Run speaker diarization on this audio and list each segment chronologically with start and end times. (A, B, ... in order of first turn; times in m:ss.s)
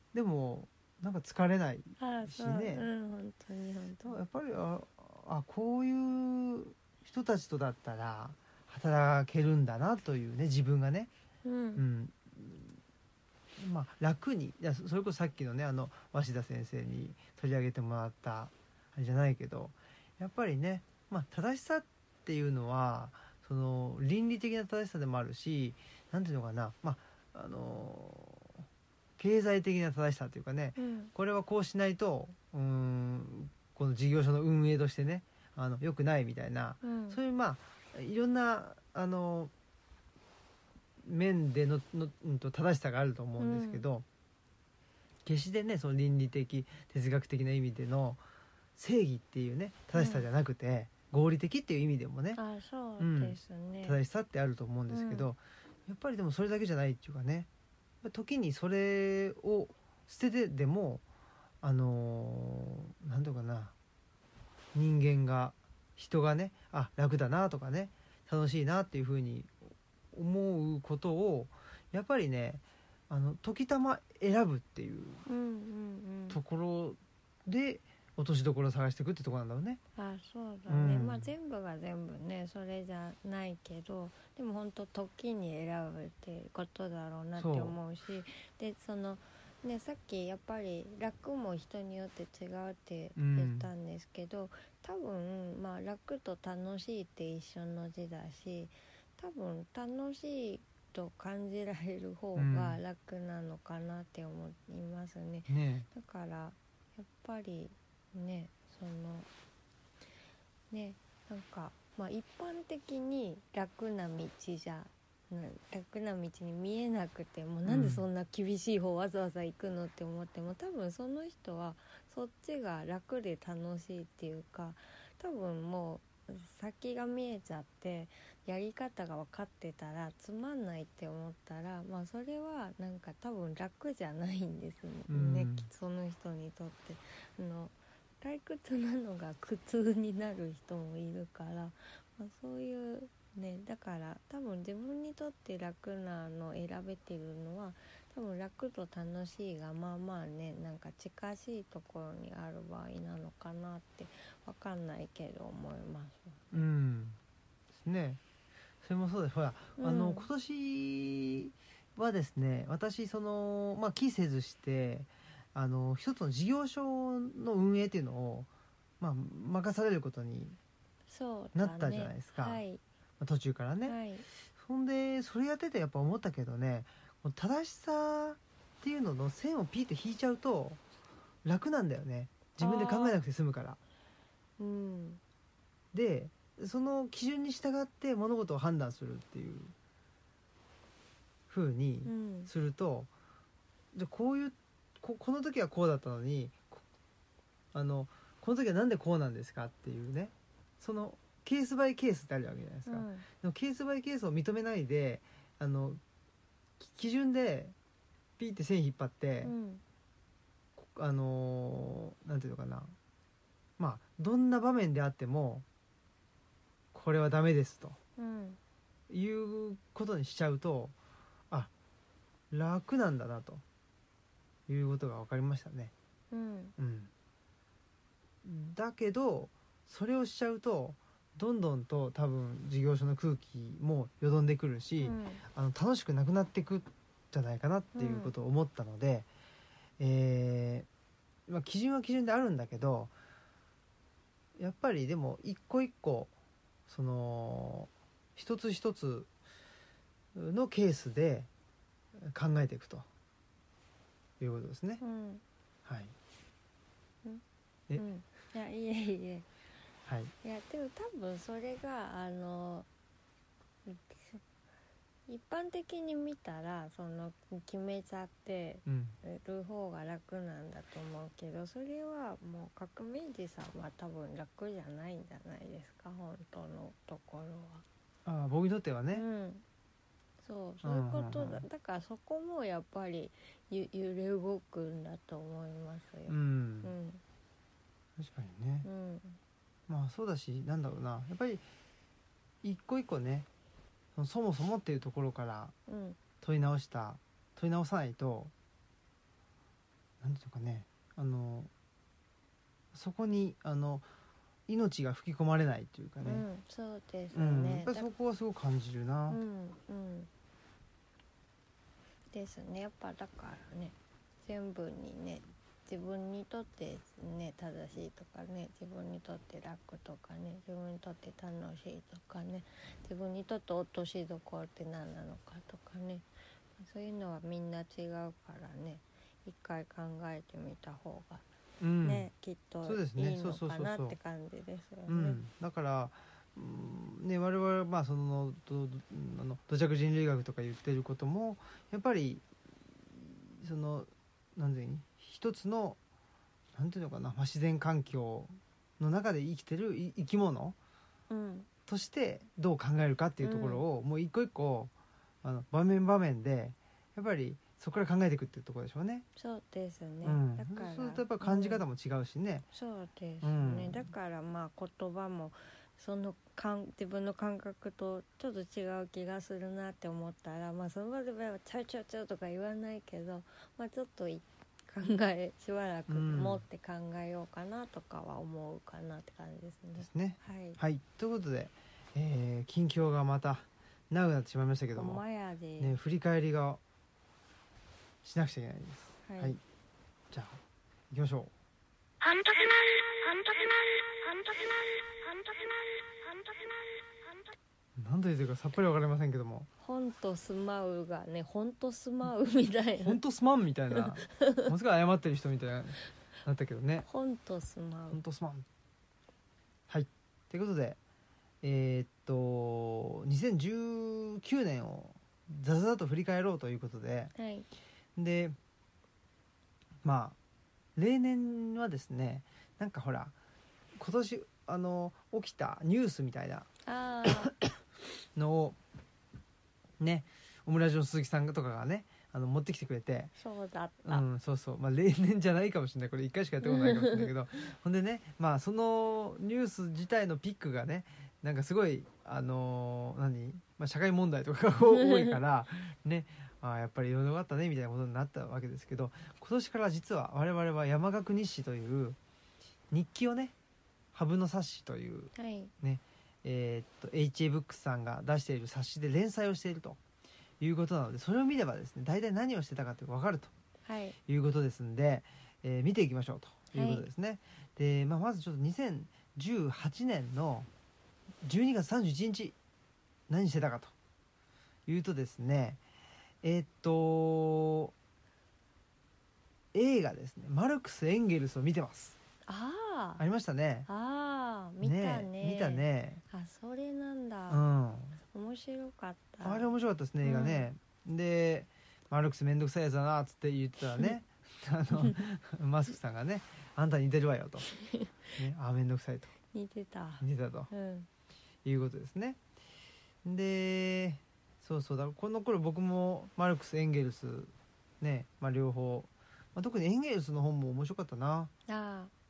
0:00.1-0:02.9 A
0:02.0-0:04.2 B
0:04.0-0:11.1 A
0:11.4-0:11.8 B
0:11.8-0:12.8 A
0:13.6-0:28.6 A
0:29.2-0:39.5 A
0:30.8-0:31.1 B
0:36.8-0:37.2 B
0:41.0-0:44.0 A
0:43.4-0:43.9 B
0:45.2-0:48.2 A
0:48.8-0:52.4 A
0:49.9-0:50.3 B
0:52.4-0:54.0 B
0:53.0-0:57.5 A
0:54.9-0:55.3 B
0:58.0-1:01.0 A
1:01.6-1:03.7 A
1:04.7-1:15.2 A
1:15.3-1:16.4 B
1:16.3-1:19.8 A
1:20.0-1:49.3 B
1:20.7-1:21.3 A
1:27.4-1:27.8 A
1:33.2-1:33.7 A
1:42.4-1:42.8 A
1:45.5-1:45.9 A
1:50.7-2:36.7 B
1:57.7-1:58.0 A
2:15.1-2:15.7 A
2:36.5-2:37.2 A
2:37.7-2:38.2 A
2:38.8-2:48.5 A
2:39.8-2:40.3 B
2:49.0-2:50.6 A
2:51.1-2:52.8 B
2:51.6-2:52.6 A
2:53.2-2:54.0 A
2:53.8-2:54.3 B
2:54.5-3:00.8 A
3:01.4-3:03.8 A
3:02.6-3:03.2 B
3:04.6-3:05.2 B
3:05.9-3:09.7 A
3:11.5-3:13.1 A
3:12.0-3:12.5 B
3:13.9-3:16.8 A
3:17.7-3:26.0 A
3:22.9-3:23.3 B
3:26.8-3:27.8 A
3:28.4-3:29.5 A
3:29.4-3:29.8 B
3:30.8-3:33.0 A
3:33.8-3:35.6 A
3:36.9-3:38.0 A
3:38.2-3:38.6 B
3:39.1-3:40.9 A
3:42.5-3:43.6 A
3:44.7-3:45.9 A
3:46.3-3:46.7 B
3:46.8-3:47.1 A
3:48.4-3:59.3 A
3:55.0-3:55.4 B
3:58.0-3:58.3 B
4:00.0-4:00.9 A
4:01.5-4:03.1 A
4:04.6-4:06.3 A
4:06.9-4:09.3 A
4:10.4-4:11.5 A
4:12.2-4:13.1 A
4:14.4-4:15.0 A
4:15.0-4:15.4 B
4:15.9-4:16.1 A
4:18.0-4:19.5 B
4:20.1-4:20.3 A
4:20.4-4:22.9 B
4:23.9-4:24.4 B
4:25.3-4:37.8 B
4:28.9-4:29.2 A
4:38.2-4:39.2 A
4:39.1-4:39.6 B
4:40.4-4:47.2 B
4:40.8-4:41.6 A
4:46.3-4:46.9 A
4:48.2-4:48.9 A
4:48.8-4:49.4 B
4:49.9-4:51.6 A
4:52.6-4:53.5 A
4:54.2-4:55.8 A
4:55.9-4:56.2 B
4:56.4-4:58.5 A
5:00.2-5:01.7 A
5:02.9-5:04.1 A
5:04.7-5:06.4 A
5:06.2-5:08.1 B
5:07.3-5:09.4 A
5:09.3-5:10.3 B
5:12.3-5:26.3 B
5:26.8-5:31.4 B
5:31.8-5:32.3 A
5:32.0-5:35.4 B
5:32.8-5:34.2 A
5:35.1-5:46.0 A
5:46.8-5:50.8 A
5:51.3-5:51.7 B
5:51.9-5:54.9 A
5:53.4-5:53.8 B
5:55.4-5:59.3 A
5:59.4-6:01.8 B
6:00.2-6:02.7 A
6:02.7-6:20.8 B
6:03.4-6:04.1 A
6:16.1-6:16.6 A
6:20.0-6:25.2 A
6:25.0-6:26.0 B
6:25.8-6:26.8 A
6:28.2-6:29.6 A
6:29.2-6:29.6 B
6:30.3-6:30.6 A
6:31.1-6:31.5 A
6:32.2-6:34.9 C
6:38.0-6:39.7 A
6:39.8-6:43.2 B
6:43.0-6:47.1 A
6:43.9-6:44.7 B
6:47.0-6:48.2 B
6:48.1-6:48.6 A
6:49.9-6:51.0 A
6:51.6-6:57.3 A
6:57.4-6:57.7 B
6:58.2-6:58.6 A
7:00.0-7:00.4 A
7:01.0-7:03.3 A
7:04.0-7:06.7 A
7:06.9-7:07.5 B
7:07.3-7:07.5 A
7:08.4-7:08.8 A
7:10.0-7:13.3 A
7:13.4-7:14.2 B
7:14.0-7:32.2 A
7:16.6-7:17.3 B
7:24.9-7:25.4 B
7:32.9-7:33.5 A
7:34.1-7:40.0 A
7:35.4-7:35.7 B
7:40.6-7:43.5 A
7:43.9-7:44.2 B
7:44.3-7:50.7 A
7:46.7-7:47.0 B
7:51.4-7:52.6 A
7:53.3-7:53.9 A
7:54.9-7:55.8 A
7:56.4-7:57.9 A
7:59.7-8:02.2 A
8:02.5-8:03.2 B
8:03.2-8:03.9 A
8:03.9-8:07.6 B
8:04.8-8:06.2 A
8:07.5-8:08.2 A
8:08.2-8:09.7 B
8:09.4-8:17.7 A
8:10.2-8:10.7 B
8:17.7-8:18.2 B
8:18.4-8:19.3 A
8:19.5-8:21.1 B
8:20.2-8:20.7 A
8:21.6-8:22.4 A
8:23.2-8:31.5 A
8:31.7-8:32.1 B